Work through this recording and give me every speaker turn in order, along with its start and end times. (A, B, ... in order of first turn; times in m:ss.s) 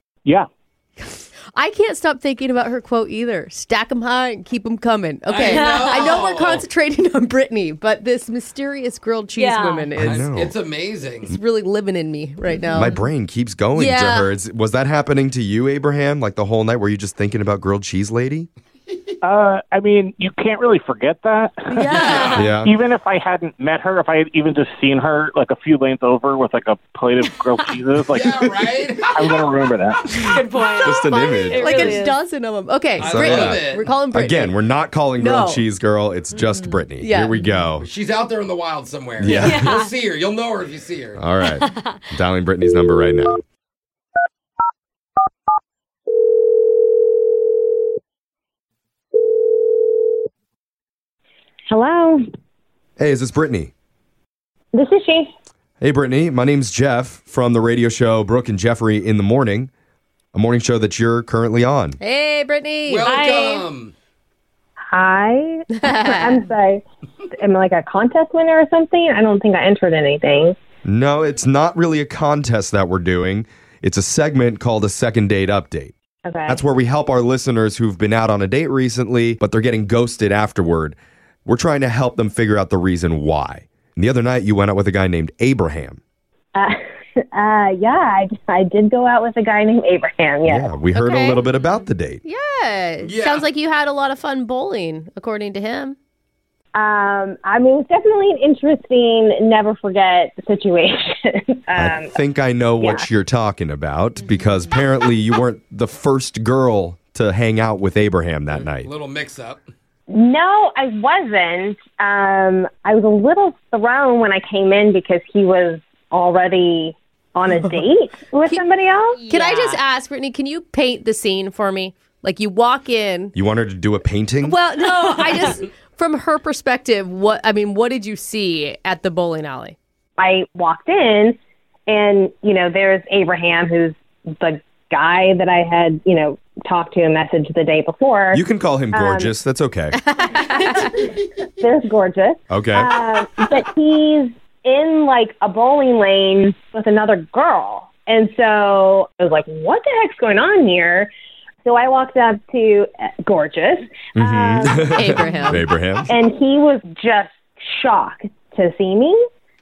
0:01.0-0:10.3 A
0:05.3-0:06.7 B
0:05.5-0:05.8 C
0:09.4-0:09.9 C
0:10.0-0:11.4 B
0:10.0-0:10.5 D
0:11.3-0:13.0 A
0:12.7-0:18.5 D
0:13.8-0:14.3 A
0:19.2-0:30.2 E
0:21.7-0:22.4 A
0:21.9-0:22.5 B
0:22.3-0:22.7 D
0:28.1-0:29.4 B
0:30.1-0:32.2 C
0:30.8-0:34.6 A
0:30.8-0:32.0 D
0:33.0-0:37.8 D
0:33.0-0:33.9 B
0:35.2-0:35.6 A
0:37.0-0:37.5 A
0:37.8-0:41.2 B
0:39.2-0:39.7 D
0:39.2-0:39.5 A
0:39.4-0:39.9 C
0:41.2-0:43.4 D
0:51.7-0:52.2 F
0:53.0-0:53.7 D
0:54.7-0:55.3 F
0:55.8-0:59.7 D
1:00.3-1:02.0 D
1:02.0-1:03.1 A
1:02.9-1:03.9 B
1:03.0-1:03.7 C
1:04.9-1:06.8 F
1:05.8-1:06.4 A
1:07.4-1:10.6 F
1:10.8-1:15.9 D
1:16.2-1:16.6 F
1:16.5-1:26.0 D
1:27.3-1:30.8 F
1:30.4-1:32.2 D
1:30.9-1:31.4 A
1:32.2-1:36.0 A
1:33.0-1:33.5 B
1:36.8-1:42.1 F
1:41.8-1:48.9 D
1:42.8-1:43.1 F
1:48.5-1:49.7 B
1:50.1-1:59.2 F
1:59.1-1:59.8 C
1:59.3-2:03.3 A
2:03.4-2:04.6 D
2:04.4-2:09.8 A
2:10.2-2:18.4 F
2:18.3-2:20.0 D
2:18.9-2:19.3 F
2:20.0-2:21.1 A
2:21.6-2:31.1 F
2:22.5-2:22.9 D
2:31.6-2:34.9 F
2:34.2-2:36.1 D
2:34.9-2:35.7 A
2:36.1-2:39.2 F